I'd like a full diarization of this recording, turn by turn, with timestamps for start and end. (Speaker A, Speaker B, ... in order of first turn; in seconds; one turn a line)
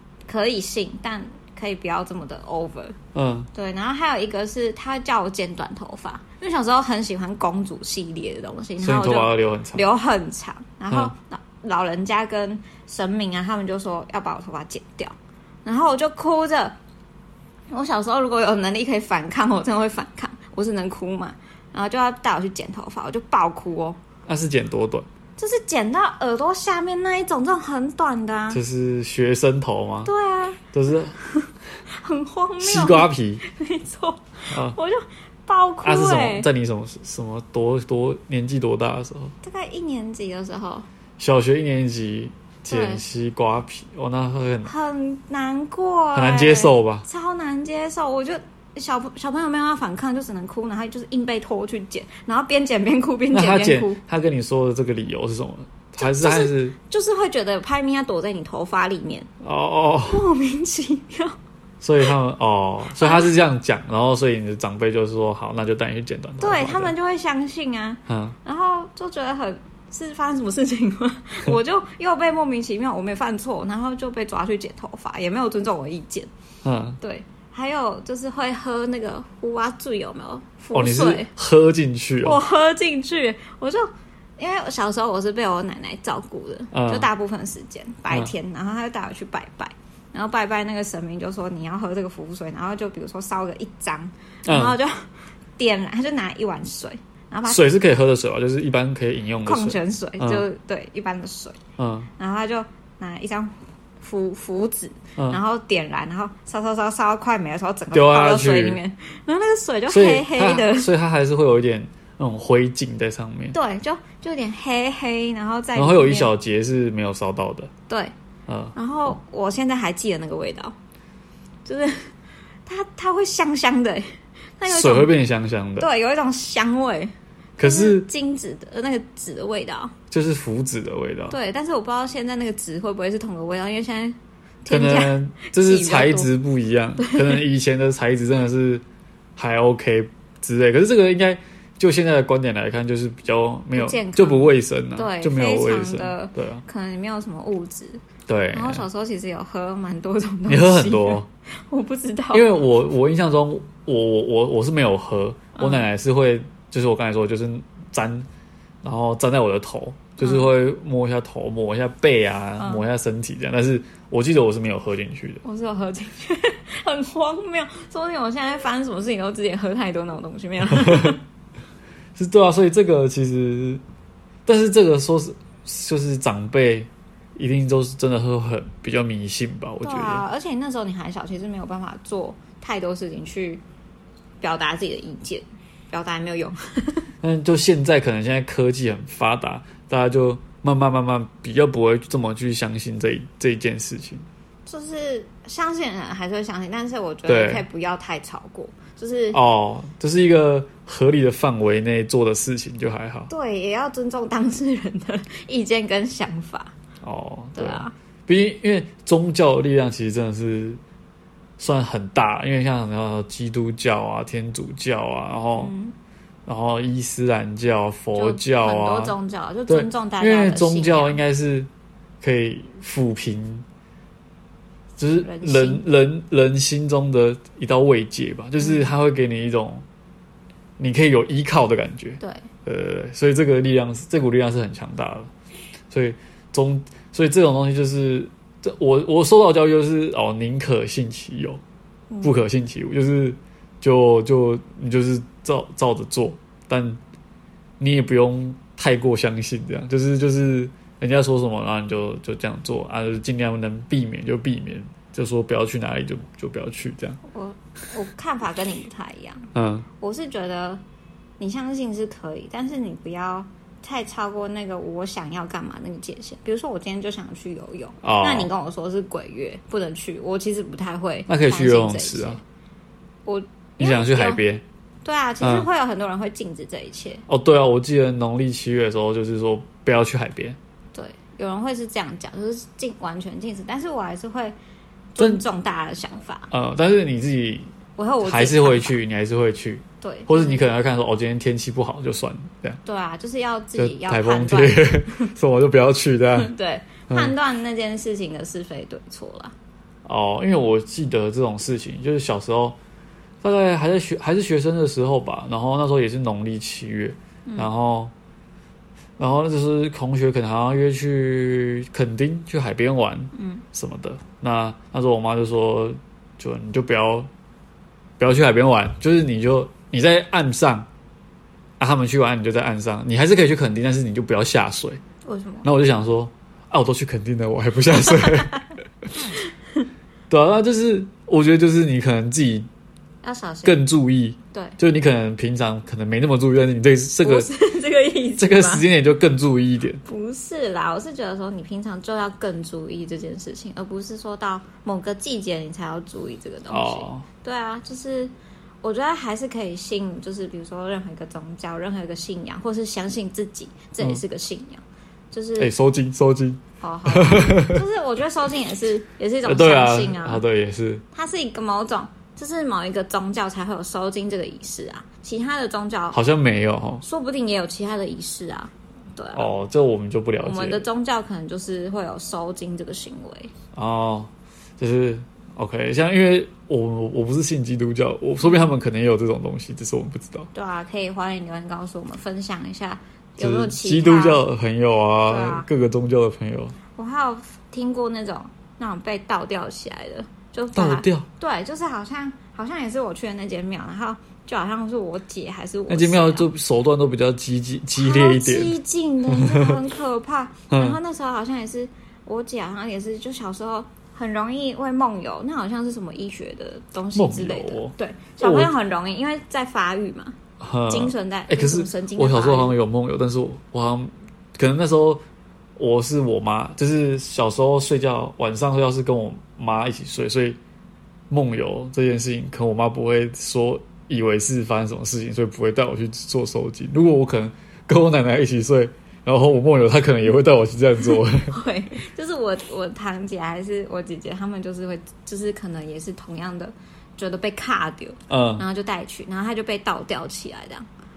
Speaker A: 0.3-3.0
Speaker B: 3.1-3.5
Speaker A: 3.5-16.8
Speaker B: 8.8-9.8
Speaker A: 17.7-24.0
Speaker B: 24.3-25.1
Speaker A: 25.4-28.6
Speaker B: 28.5-30.1
Speaker A: 30.1-30.6
Speaker B: 30.7-31.2
Speaker A: 31.2-36.5
Speaker B: 32.6-33.4
Speaker B: 34.5-34.8
Speaker B: 35.8-39.3
Speaker A: 39.4-40.9
Speaker B: 41.2-44.7
Speaker A: 42.7-43.0
Speaker A: 44.6-54.0
Speaker B: 46.1-47.1
Speaker B: 53.3-56.8
Speaker A: 56.0-59.3
Speaker B: 59.4-60.2
Speaker A: 60.1-61.4
Speaker B: 61.8-66.9
Speaker A: 63.0-63.4
Speaker A: 66.4-76.3
Speaker B: 68.1-68.4
Speaker B: 76.6-77.0
Speaker A: 77.0-81.3
Speaker B: 80.7-82.4
Speaker A: 82.2-83.9
Speaker A: 84.4-97.7
Speaker B: 86.7-87.1
Speaker B: 94.5-94.8
Speaker B: 97.5-100.5
Speaker A: 99.4-101.6
Speaker B: 101.8-102.1
Speaker A: 102.2-110.9
Speaker B: 107.9-108.8
Speaker B: 109.9-113.6
Speaker A: 113.5-116.3
Speaker B: 115.8-117.7
Speaker B: 118.5-119.2
Speaker A: 118.8-120.7
Speaker A: 121.7-122.1
Speaker A: 122.7-125.2
Speaker B: 124.7-125.9
Speaker A: 125.8-129.9
Speaker B: 127.6-128.1
Speaker B: 130.1-131.4
Speaker A: 131.3-136.3
Speaker B: 134.7-138.8
Speaker A: 137.0-137.4
Speaker B: 139.4-146.6
Speaker A: 143.8-152.6
Speaker B: 148.3-148.9
Speaker B: 150.5-151.3
Speaker B: 152.3-158.3
Speaker A: 155.6-155.9
Speaker B: 158.8-165.4
Speaker A: 160.2-160.5
Speaker A: 162.6-162.8
Speaker A: 165.4-171.2
Speaker B: 170.7-171.2
Speaker B: 172.2-173.8
Speaker B: 174.5-180.2
Speaker A: 179.8-183.6
Speaker A: 184.4-187.1
Speaker B: 187.2-194.3
Speaker A: 194.7-199.4
Speaker B: 197.3-197.7
Speaker B: 199.3-203.3
Speaker A: 203.3-206.7
Speaker B: 207.0-210.8
Speaker A: 207.6-207.9
Speaker B: 211.6-215.7
Speaker A: 215.6-215.9
Speaker B: 216.5-219.1
Speaker A: 218.1-221.2
Speaker B: 219.7-221.7
Speaker B: 222.2-223.6
Speaker B: 225.0-229.8
Speaker A: 225.2-225.9
Speaker A: 228.6-228.9
Speaker B: 230.8-235.3
Speaker A: 232.2-232.4
Speaker B: 235.9-241.6
Speaker A: 242.1-242.4
Speaker B: 242.2-247.0
Speaker B: 247.8-257.2
Speaker A: 257.3-260.8
Speaker B: 259.6-259.9
Speaker A: 261.4-272.4
Speaker B: 268.0-268.5
Speaker B: 271.3-272.4
Speaker A: 273.2-274.4
Speaker B: 273.8-274.6
Speaker A: 275.1-277.2
Speaker B: 275.4-275.7
Speaker B: 277.3-280.6
Speaker A: 280.9-284.6
Speaker A: 285.1-286.5
Speaker B: 285.2-285.4
Speaker B: 286.5-287.7
Speaker A: 288.0-288.9
Speaker B: 288.2-292.8
Speaker A: 290.0-290.6
Speaker A: 292.9-295.1
Speaker B: 293.8-296.5
Speaker A: 296.4-299.5
Speaker B: 297.1-297.3
Speaker B: 300.1-302.8
Speaker B: 303.4-308.1
Speaker B: 309.2-317.3
Speaker A: 313.4-313.6
Speaker B: 318.2-320.9
Speaker B: 321.8-325.0
Speaker A: 325.2-325.7
Speaker B: 325.6-329.1
Speaker B: 330.3-332.7
Speaker A: 333.2-333.9
Speaker B: 333.6-337.5
Speaker A: 334.5-334.8
Speaker A: 337.2-338.9
Speaker B: 338.4-340.0
Speaker A: 340.1-355.7
Speaker B: 346.7-347.3
Speaker B: 355.6-357.8
Speaker A: 356.8-360.4
Speaker B: 359.4-361.0
Speaker A: 361.1-366.2
Speaker B: 366.1-367.0
Speaker A: 367.0-369.5
Speaker B: 369.3-370.9
Speaker A: 370.4-373.5
Speaker B: 373.7-380.5
Speaker A: 378.4-378.7
Speaker A: 380.5-384.4
Speaker B: 383.4-386.8
Speaker A: 385.3-385.7
Speaker A: 387.0-396.5
Speaker B: 390.7-391.3
Speaker B: 395.9-398.8
Speaker A: 398.0-410.4
Speaker B: 399.3-399.8
Speaker B: 400.7-401.0
Speaker B: 407.1-408.7
Speaker B: 410.6-415.2
Speaker A: 410.9-412.8
Speaker B: 415.8-420.6
Speaker B: 421.3-431.6
Speaker A: 431.5-440.9
Speaker B: 438.3-438.6